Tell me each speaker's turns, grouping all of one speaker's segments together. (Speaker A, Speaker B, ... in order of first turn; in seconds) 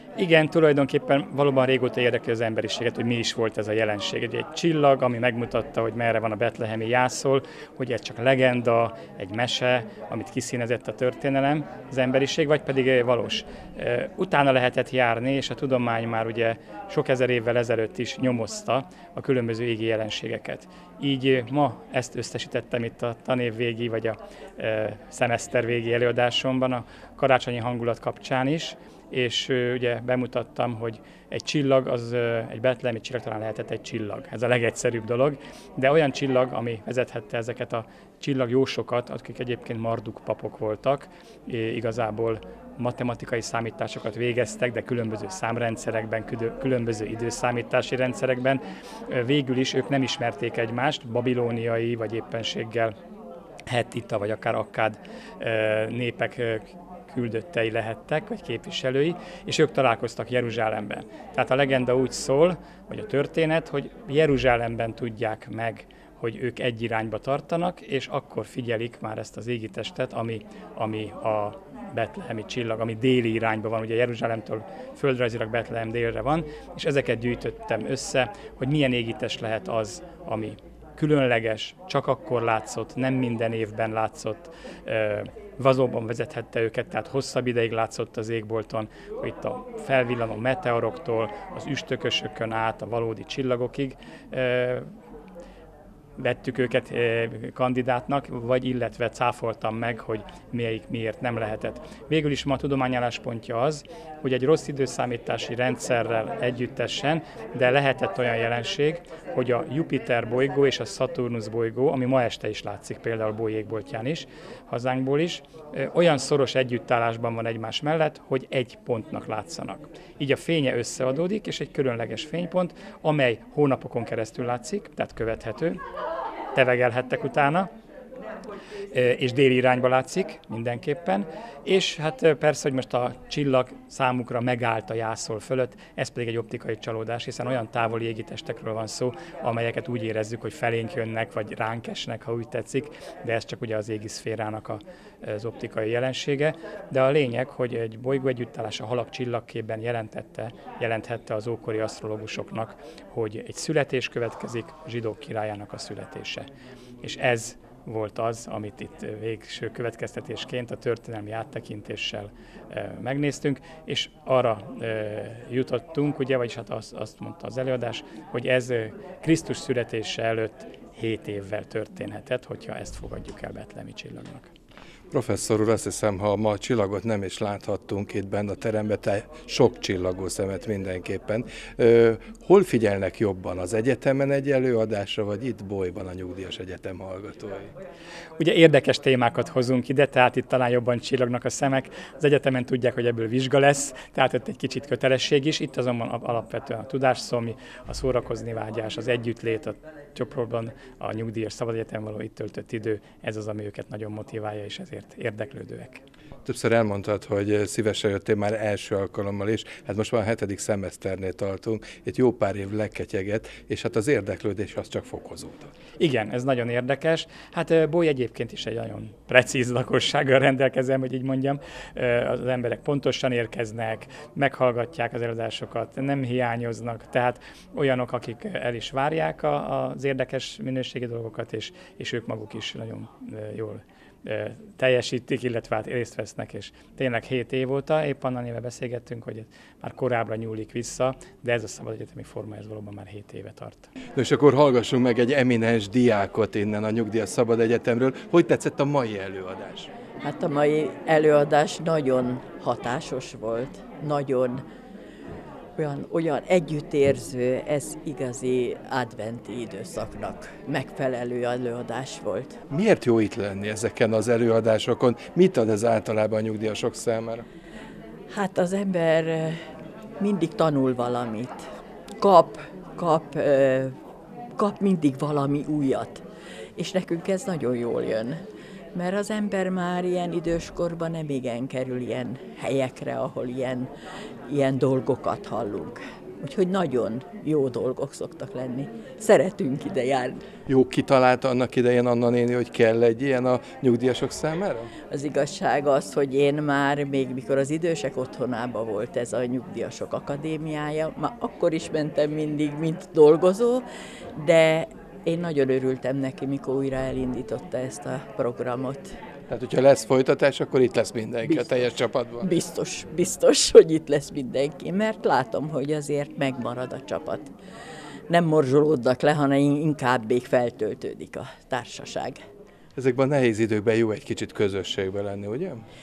Speaker A: 0.2-53.0, 53.7-94.9, 96.2-125.8, 126.5-127.7, 128.9-156.4, 157.0-174.5, 188.4-206.0, 216.0-243.9
Speaker B: 175.1-187.7, 206.4-215.7, 244.1-249.9, 262.7-267.4, 290.7-294.9, 309.5-312.5, 322.9-325.8
Speaker C: 250.2-254.6, 255.8-262.6, 268.3-269.6, 270.2-271.6, 272.2-273.9, 274.6-276.2, 276.8-278.4, 278.9-283.9, 284.5-290.4, 295.1-303.8, 304.4-309.1, 312.4-317.5, 318.3-322.4